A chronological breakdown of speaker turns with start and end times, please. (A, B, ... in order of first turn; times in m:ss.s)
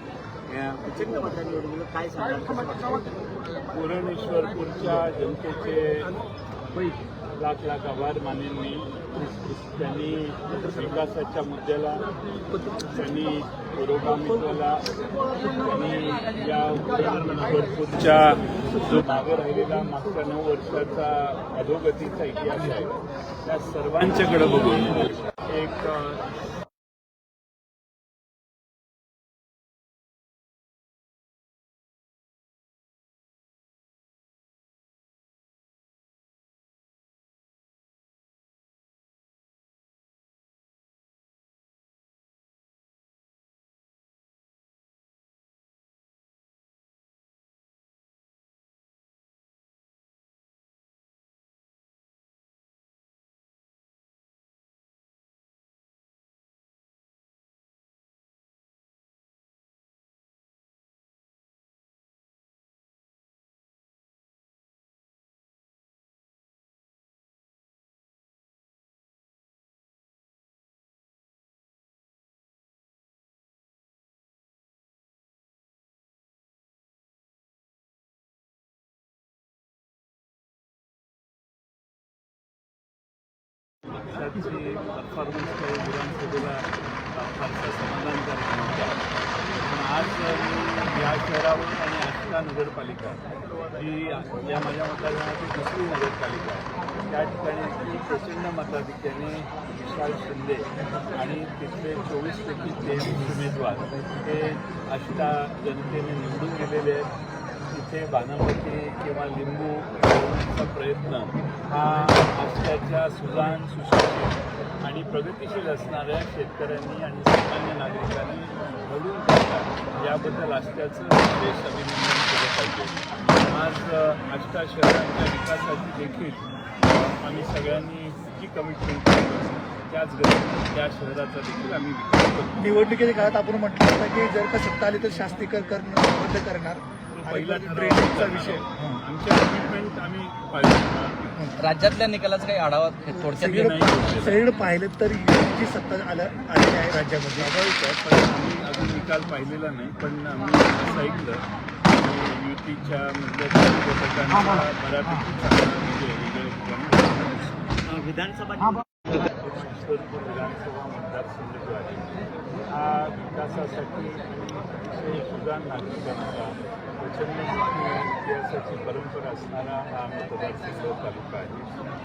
0:00.5-0:03.2 A
0:03.7-0:06.1 B
0:06.8-0:12.0 B
0:12.9-0:14.8 B
0:15.4-0:26.2 B
1:24.0-1:29.0 B
1:29.6-1:47.1 B
1:47.7-2:12.6 B
2:12.6-2:19.0 C
2:17.1-2:21.5 B
2:21.6-2:24.1 D
2:23.2-2:27.5 C
2:23.5-2:24.4 B
2:27.4-2:37.4 B
2:37.9-2:39.2 A
2:39.2-2:42.0 B
2:42.7-2:51.7 B